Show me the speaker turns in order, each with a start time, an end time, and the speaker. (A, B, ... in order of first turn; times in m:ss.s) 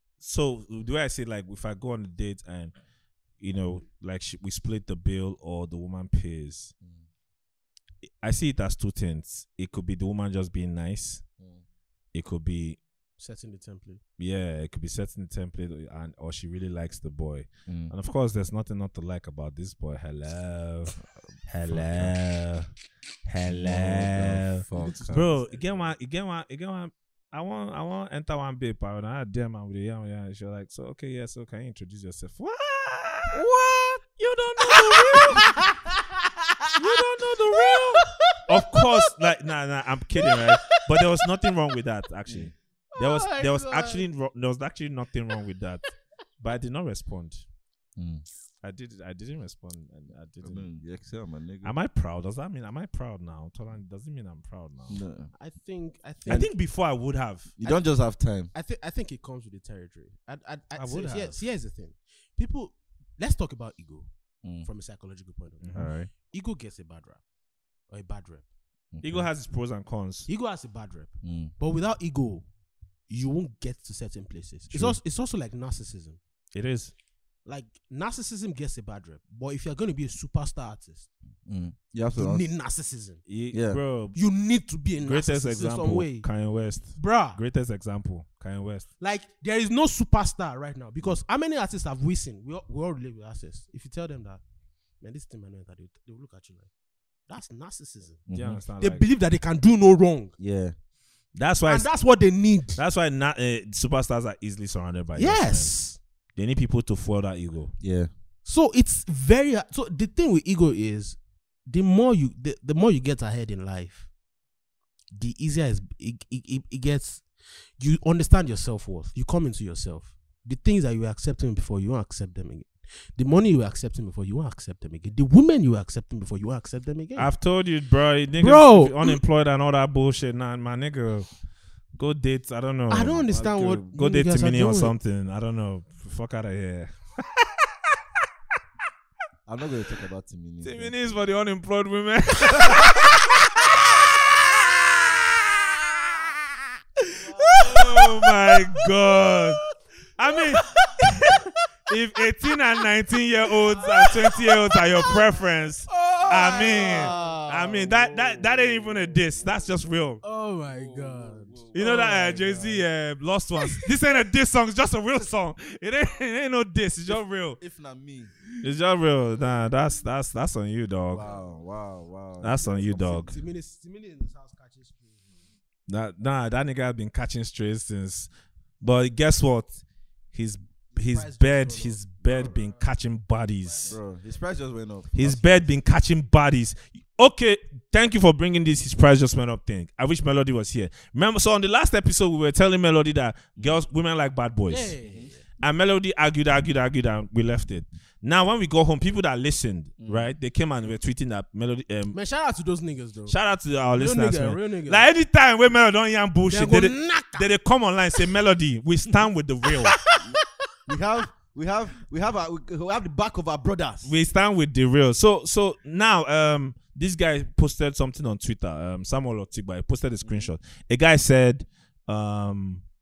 0:00.2-0:02.7 A
0:03.4-0:06.7 A
0:08.0-0:11.2 A
0:11.4-0:11.6 B
0:12.1-0:12.8 A
0:13.2-0:14.0 C
0:14.2-0:20.9 A
0:17.7-0:17.9 B
0:21.5-0:22.7 A
0:21.7-0:22.2 B
0:23.2-0:33.4 A
0:23.4-0:25.3 B
0:24.7-0:25.9 C
0:33.3-0:34.0 C
0:34.2-0:35.6 A
0:34.6-0:39.0 C
0:36.8-0:47.4 A
0:40.2-0:41.2 C
0:42.3-0:42.5 B
0:42.9-0:44.1 C
0:48.0-0:48.2 B
0:48.6-0:50.6 A
0:50.4-0:51.7 B
0:51.6-0:55.0 A
0:54.9-0:55.3 B
0:55.3-0:56.5 C
0:56.2-0:56.5 B
0:56.3-0:57.5 A
0:57.6-0:58.5 B
0:57.6-0:57.9 C
0:58.5-1:04.1 C
1:00.7-1:01.4 A
1:04.6-1:07.2 C
1:05.6-1:06.0 A
1:05.7-1:06.1 B
1:07.9-1:08.5 C
1:08.9-1:09.3 B
1:09.0-1:10.3 A
1:10.3-1:12.5 C
1:11.2-1:11.5 B
1:13.1-1:16.2 C
1:16.5-1:16.9 A
1:17.4-1:21.1 C
1:21.4-1:22.5 B
1:22.1-1:23.2 C
1:23.2-1:24.2 A
1:23.5-1:23.8 B
1:24.1-1:26.3 C
1:25.0-1:28.9 A
1:27.0-1:27.4 C
1:29.0-1:34.4 C
1:35.0-1:36.7 C
1:37.3-1:38.2 C
1:38.3-1:38.6 B
1:38.3-1:39.0 A
1:38.8-1:40.4 C
1:40.4-1:40.7 B
1:41.3-1:42.0 A
1:41.7-1:42.8 C
1:42.8-1:45.7 A
1:45.2-1:46.0 C
1:46.3-1:47.7 A
1:47.8-1:48.1 B
1:48.4-1:54.1 C
1:55.1-2:07.3 C
2:07.2-2:11.3 A
2:08.4-2:09.2 C
2:11.9-2:17.7 A
2:12.9-2:14.9 C
2:19.4-2:21.0 B
2:20.6-2:25.7 A
2:22.6-2:22.8 B
2:27.3-2:28.5 C
2:27.4-2:29.6 A
2:30.2-2:40.2 A
2:30.7-2:31.3 C
2:33.7-2:34.8 C
2:35.9-2:37.4 C
2:36.2-2:39.8 B
2:40.2-2:42.4 C
2:40.6-2:42.8 B
2:41.7-2:47.6 A
2:47.1-2:48.4 B
2:48.6-2:51.2 A
2:51.1-2:53.1 B
2:52.4-2:53.4 A
2:52.6-2:55.3 C
2:55.9-2:58.3 A
2:58.8-3:04.0 A
3:00.9-3:02.8 C
3:03.6-3:04.0 C
3:03.8-3:05.7 B
3:05.1-3:15.0 A
3:14.7-3:15.4 C
3:15.0-3:15.3 B
3:15.6-3:22.2 A
3:20.0-3:20.3 B
3:22.1-3:23.4 C
3:23.3-3:30.0 A
3:23.9-3:25.1 C
3:26.5-3:27.5 C
3:29.9-3:30.6 C
3:30.2-3:34.1 B
3:34.0-3:42.8 A
3:40.2-3:40.5 B